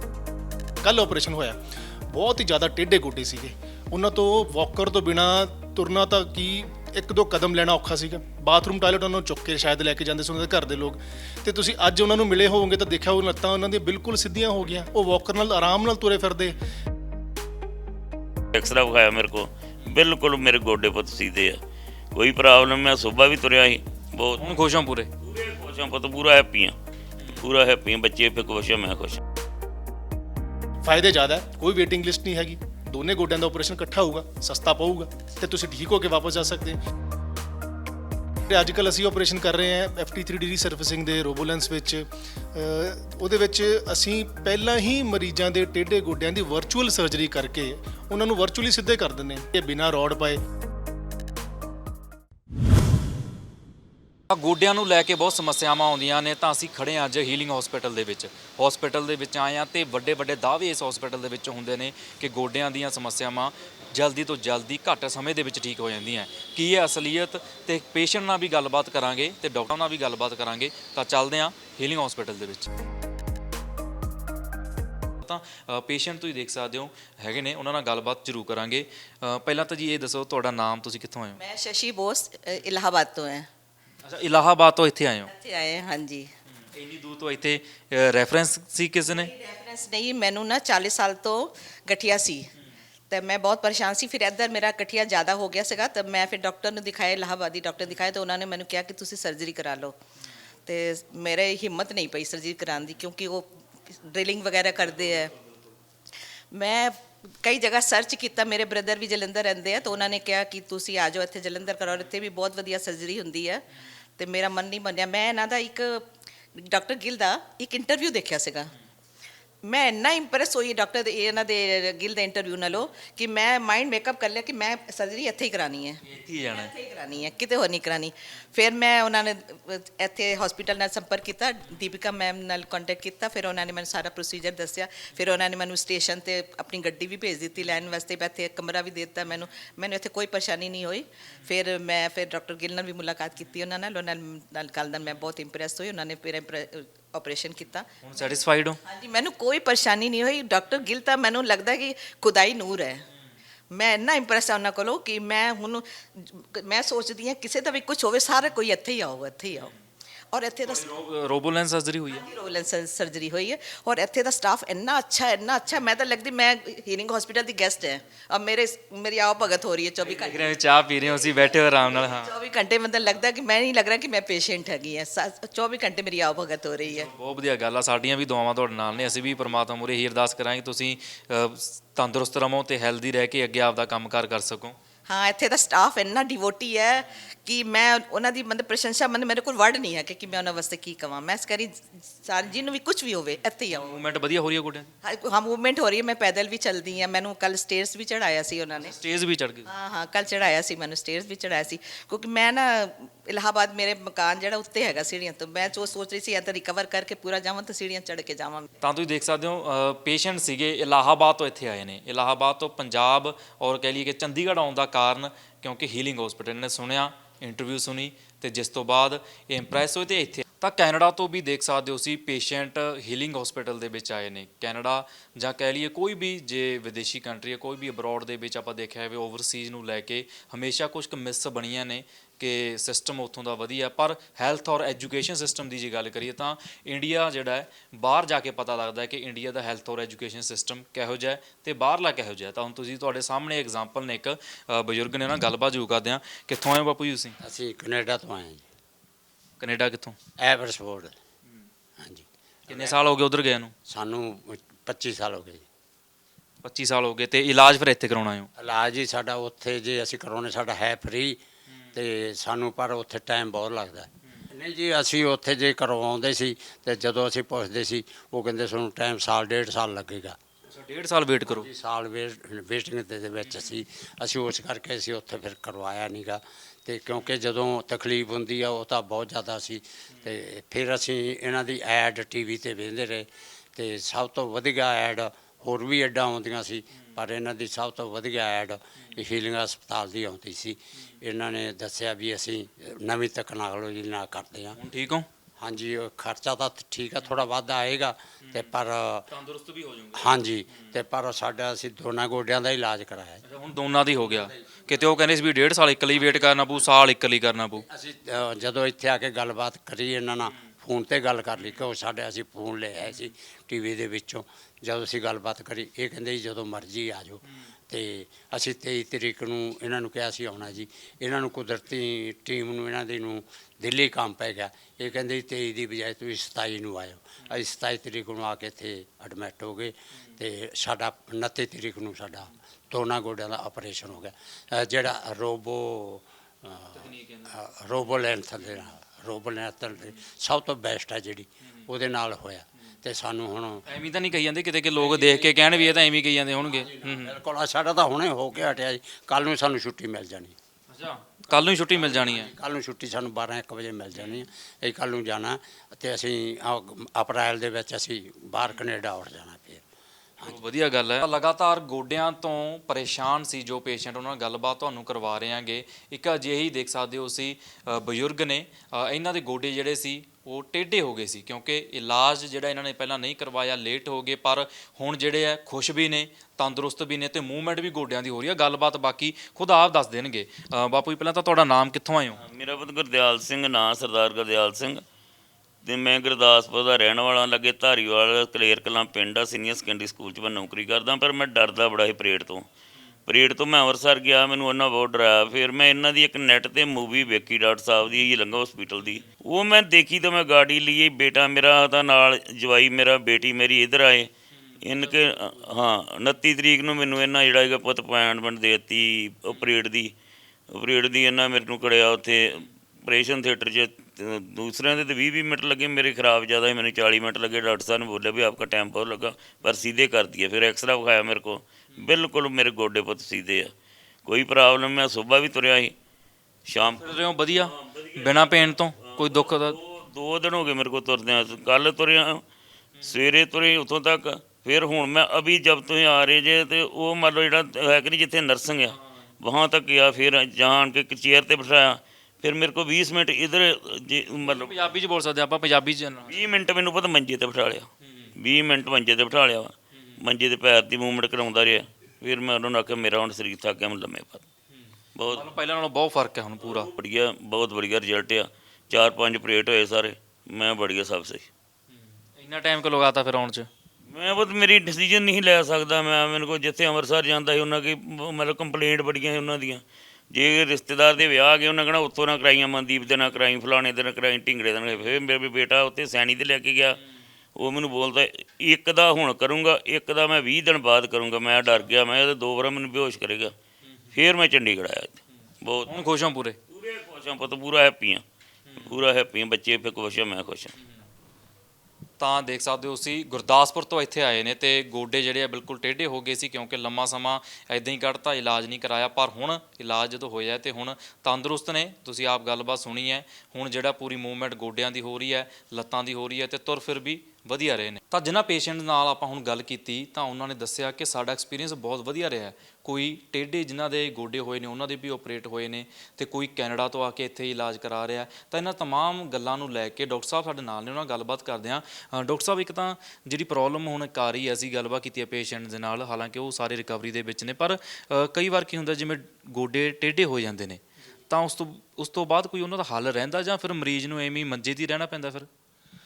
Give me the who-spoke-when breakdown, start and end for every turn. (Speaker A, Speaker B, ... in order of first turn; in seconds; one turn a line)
Speaker A: 0.8-1.6
Speaker A: 2.1-16.6
Speaker B: 18.5-21.6
Speaker B: 22.1-24.5
Speaker C: 24.4-25.1
Speaker B: 25.2-26.8
Speaker B: 27.3-29.2
Speaker A: 30.8-36.8
Speaker A: 38.5-50.4
Speaker C: 54.3-72.7
Speaker C: 75.2-81.4
Speaker D: 81.4-83.5
Speaker C: 84.0-85.3
Speaker D: 85.3-86.3
Speaker C: 86.7-89.3
Speaker D: 89.0-92.5
Speaker D: 93.1-100.0
Speaker D: 100.7-105.3
Speaker D: 106.5-113.6
Speaker D: 114.2-116.0
Speaker D: 116.6-118.7
Speaker D: 119.6-147.9
Speaker C: 126.0-126.7
Speaker C: 148.0-148.8
Speaker D: 148.8-153.0
Speaker D: 153.7-159.7
Speaker D: 160.3-160.9
Speaker C: 160.6-162.3
Speaker D: 162.1-177.1
Speaker C: 170.0-172.3
Speaker C: 176.8-184.8
Speaker D: 185.1-194.0
Speaker C: 193.7-194.9
Speaker D: 195.0-198.9
Speaker C: 198.8-199.7
Speaker D: 199.7-208.7
Speaker C: 208.8-247.4
Speaker E: 247.4-248.6
Speaker C: 249.6-250.2
Speaker E: 250.4-251.2
Speaker E: 252.0-253.0
Speaker C: 252.7-253.7
Speaker E: 253.9-255.7
Speaker C: 256.6-258.5
Speaker E: 258.6-261.4
Speaker E: 261.9-270.4
Speaker C: 270.7-271.7
Speaker E: 271.4-294.8
Speaker C: 294.8-295.3
Speaker E: 295.6-299.3
Speaker C: 299.3-300.4
Speaker E: 300.1-303.4
Speaker C: 303.4-307.9
Speaker E: 304.2-305.0
Speaker E: 306.7-306.9
Speaker E: 307.8-343.8
Speaker C: 336.9-337.6
Speaker C: 343.9-347.4
Speaker E: 345.0-345.9
Speaker E: 346.6-350.6
Speaker C: 350.9-352.5
Speaker E: 351.5-359.8
Speaker C: 354.2-354.4
Speaker C: 360.4-382.4
Speaker B: 382.4-385.0
Speaker B: 385.9-392.7
Speaker B: 393.3-404.3
Speaker B: 404.8-410.1
Speaker B: 410.7-423.7
Speaker B: 424.3-425.9
Speaker B: 426.7-432.4
Speaker C: 427.0-429.8
Speaker B: 433.0-444.8
Speaker C: 444.4-446.4
Speaker B: 446.2-454.4
Speaker C: 448.0-448.3
Speaker B: 455.2-455.5
Speaker C: 455.3-456.9
Speaker B: 456.6-461.5
Speaker C: 462.4-463.7
Speaker B: 464.1-477.0
Speaker B: 477.6-483.5
Speaker B: 484.1-485.9
Speaker C: 485.9-486.6
Speaker B: 486.7-488.2
Speaker B: 488.8-490.7
Speaker C: 492.2-535.5